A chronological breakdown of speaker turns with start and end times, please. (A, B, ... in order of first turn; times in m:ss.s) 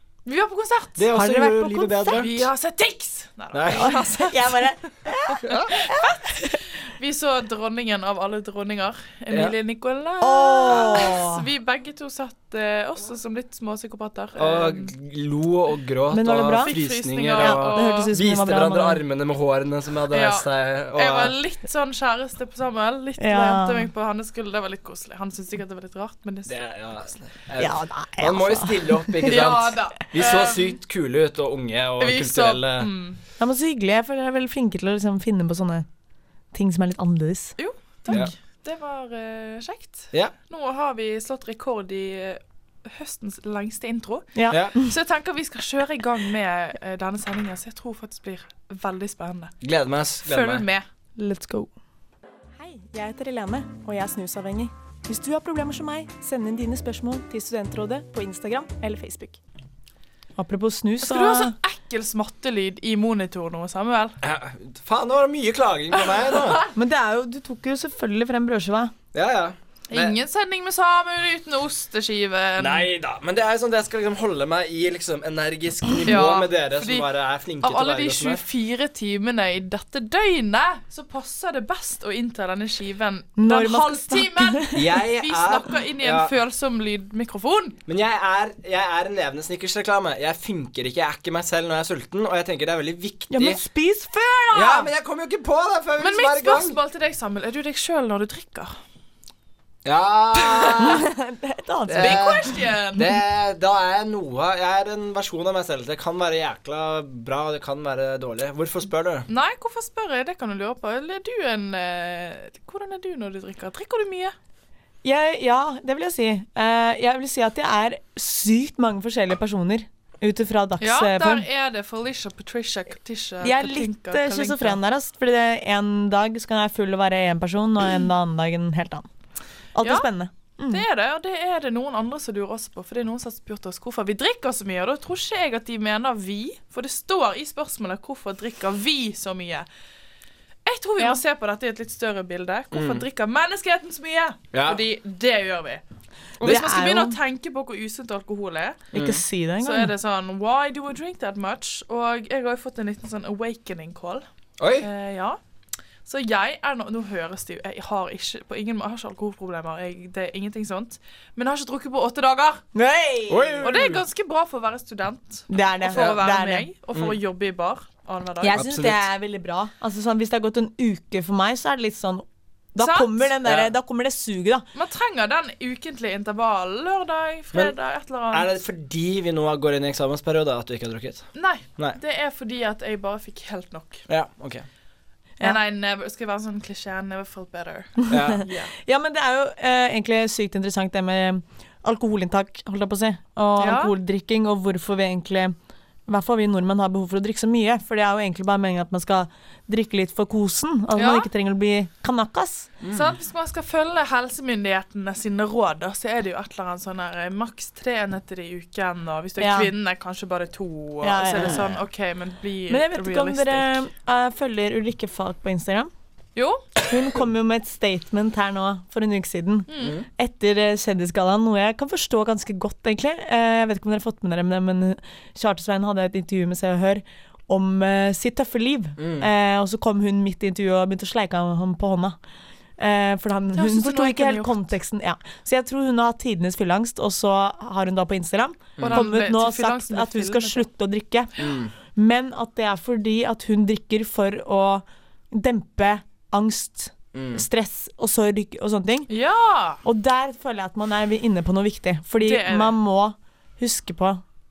0:00.2-0:01.0 A
0:01.0-0:02.5 B
0:01.1-0:02.3 C
0:02.1-0:04.3 A
0:03.5-0:04.0 B
0:03.7-0:06.6 C
0:05.4-0:14.9 A
0:10.2-0:11.4 C
0:14.4-0:21.3 B
0:16.1-0:16.7 C
0:16.6-0:18.1 A
0:17.4-0:19.0 C
0:20.1-0:26.6 A
0:23.2-0:23.9 C
0:26.5-0:32.9 B
0:27.6-0:29.4 C
0:29.2-0:30.7 A
0:32.0-0:33.2 A
0:33.4-0:35.8 C
0:36.5-0:37.5 C
0:37.6-0:49.5 A
0:44.3-0:44.8 C
0:44.5-0:44.7 B
0:49.6-0:50.6 B
0:50.2-0:50.8 A
0:51.2-0:51.7 C
0:52.6-0:59.4 C
1:00.4-1:01.5 C
1:01.0-1:04.2 A
1:04.2-1:06.6 B
1:06.2-1:06.7 A
1:06.7-1:08.9 C
1:09.1-1:10.2 B
1:09.9-1:12.9 A
1:12.6-1:18.4 B
1:16.0-1:17.1 A
1:17.6-1:27.8 A
1:23.4-1:25.0 C
1:24.7-1:26.3 B
1:27.8-1:33.6 B
1:33.3-1:34.9 C
1:34.5-1:36.8 B
1:36.0-1:38.7 A
1:39.8-1:41.0 B
1:40.5-1:40.9 A
1:40.8-1:42.4 C
1:41.9-1:42.4 B
1:42.0-1:43.1 A
1:42.9-1:49.3 B
1:49.3-1:54.3 A
1:55.0-2:01.4 C
2:00.8-2:04.8 A
2:03.4-2:09.1 C
2:09.7-2:10.8 C
2:09.8-2:10.1 A
2:10.7-2:19.7 A
2:20.6-2:25.8 A
2:22.7-2:23.0 B
2:24.5-2:24.8 B
2:26.4-2:27.2 C
2:26.4-2:28.8 A
2:28.9-2:29.2 B
2:28.9-2:29.9 C
2:29.6-2:34.2 A
2:34.6-2:34.9 B
2:34.8-2:35.4 A
2:36.0-2:42.6 A
2:42.7-2:43.6 C
2:43.3-2:44.0 B
2:43.6-2:48.6 A
2:45.5-2:46.7 C
2:48.4-2:54.7 C
2:48.5-2:49.0 B
2:52.8-2:53.3 A
2:53.4-2:53.7 B
2:54.7-2:58.5 A
2:58.3-3:02.0 B
3:01.4-3:04.0 A
3:04.1-3:04.6 B
3:05.4-3:08.7 A
3:08.1-3:15.5 C
3:08.1-3:08.4 B
3:13.6-3:13.9 A
3:16.1-3:22.7 C
3:20.9-3:21.3 A
3:22.8-3:23.1 B
3:22.9-3:33.8 A
3:29.4-3:29.7 C
3:31.0-3:31.8 C
3:31.3-3:31.6 B
3:32.7-3:35.9 C
3:36.4-3:36.7 A
3:36.8-3:52.2 C
3:39.7-3:40.0 A
3:49.0-3:49.3 B
3:52.8-4:09.1 C
3:53.6-3:54.6 A
3:58.8-3:59.1 B
3:58.8-4:00.6 A
4:01.4-4:01.7 B
4:07.1-4:07.4 B
4:09.1-4:09.8 A
4:09.8-4:14.2 C
4:12.2-4:12.8 A